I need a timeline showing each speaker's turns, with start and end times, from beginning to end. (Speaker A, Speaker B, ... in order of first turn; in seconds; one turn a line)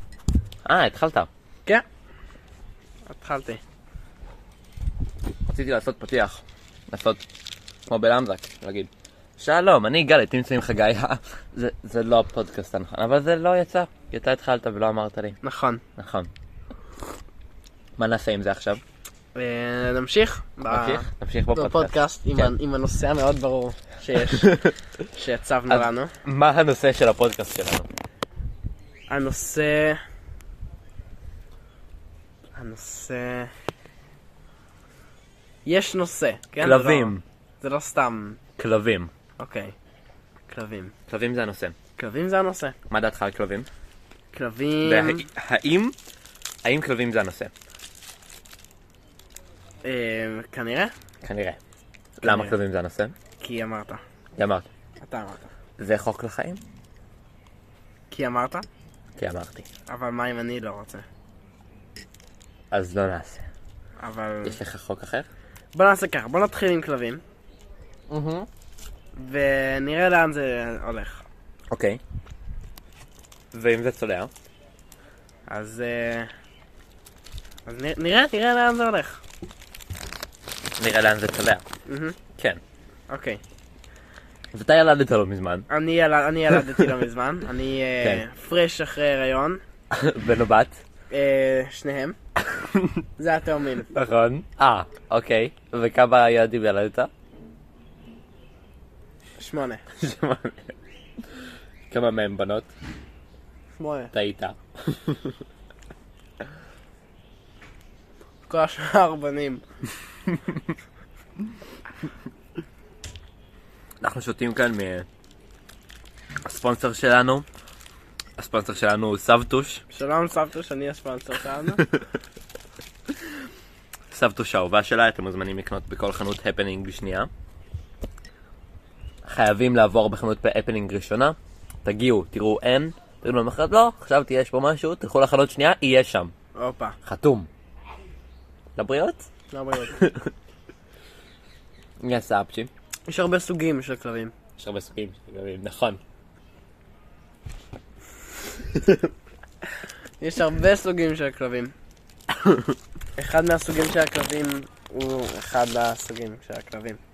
Speaker A: 0.6-1.3
Speaker B: 3.1-3.6
Speaker A: 5.5-7.2
Speaker A: 7.9-15.4
Speaker B: 15.4-15.8
Speaker A: 16.0-16.3
Speaker A: 18.0-18.8
Speaker B: 19.3-24.6
Speaker A: 20.7-22.5
Speaker A: 24.3-24.7
Speaker B: 25.1-26.1
Speaker A: 25.7-27.9
Speaker B: 29.1-30.0
Speaker B: 32.5-33.5
Speaker B: 35.6-38.4
Speaker A: 36.6-37.2
Speaker A: 38.6-39.1
Speaker B: 39.4-39.7
Speaker B: 40.5-40.9
Speaker A: 41.1-41.7
Speaker B: 42.0-42.8
Speaker A: 42.9-43.7
Speaker B: 44.3-45.3
Speaker A: 44.8-46.0
Speaker A: 46.6-47.5
Speaker B: 49.8-50.9
Speaker A: 51.2-51.6
Speaker B: 52.2-52.5
Speaker A: 52.2-53.1
Speaker B: 53.4-54.0
Speaker A: 54.4-54.7
Speaker B: 55.0-55.5
Speaker A: 55.8-56.6
Speaker B: 58.1-58.6
Speaker A: 59.2-59.6
Speaker B: 59.9-61.0
Speaker A: 62.7-63.5
Speaker B: 64.0-64.6
Speaker A: 64.4-65.3
Speaker B: 65.7-67.2
Speaker A: 68.1-68.5
Speaker B: 69.2-71.2
Speaker A: 71.7-72.0
Speaker A: 73.5-74.3
Speaker B: 75.5-76.3
Speaker B: 77.7-79.2
Speaker A: 80.8-81.6
Speaker B: 81.8-82.2
Speaker B: 83.1-83.4
Speaker A: 84.5-85.7
Speaker B: 85.7-89.6
Speaker A: 86.5-86.9
Speaker A: 89.9-90.8
Speaker B: 91.1-92.2
Speaker A: 92.5-93.0
Speaker B: 93.2-93.9
Speaker A: 93.9-97.1
Speaker B: 99.4-99.8
Speaker A: 100.0-100.7
Speaker A: 101.9-102.7
Speaker B: 103.8-104.1
Speaker A: 104.1-105.3
Speaker B: 108.5-109.6
Speaker A: 114.0-115.1
Speaker A: 116.4-117.5
Speaker A: 118.4-119.8
Speaker B: 119.9-121.9
Speaker A: 124.1-127.3
Speaker A: 129.2-136.3
Speaker B: 136.5-137.0
Speaker A: 137.0-137.5
Speaker A: 138.8-139.2
Speaker B: 139.5-140.0
Speaker A: 139.9-140.3
Speaker A: 142.0-142.7
Speaker B: 143.1-144.3
Speaker A: 144.6-146.0
Speaker A: 148.7-149.0
Speaker B: 150.2-151.7
Speaker B: 153.2-157.0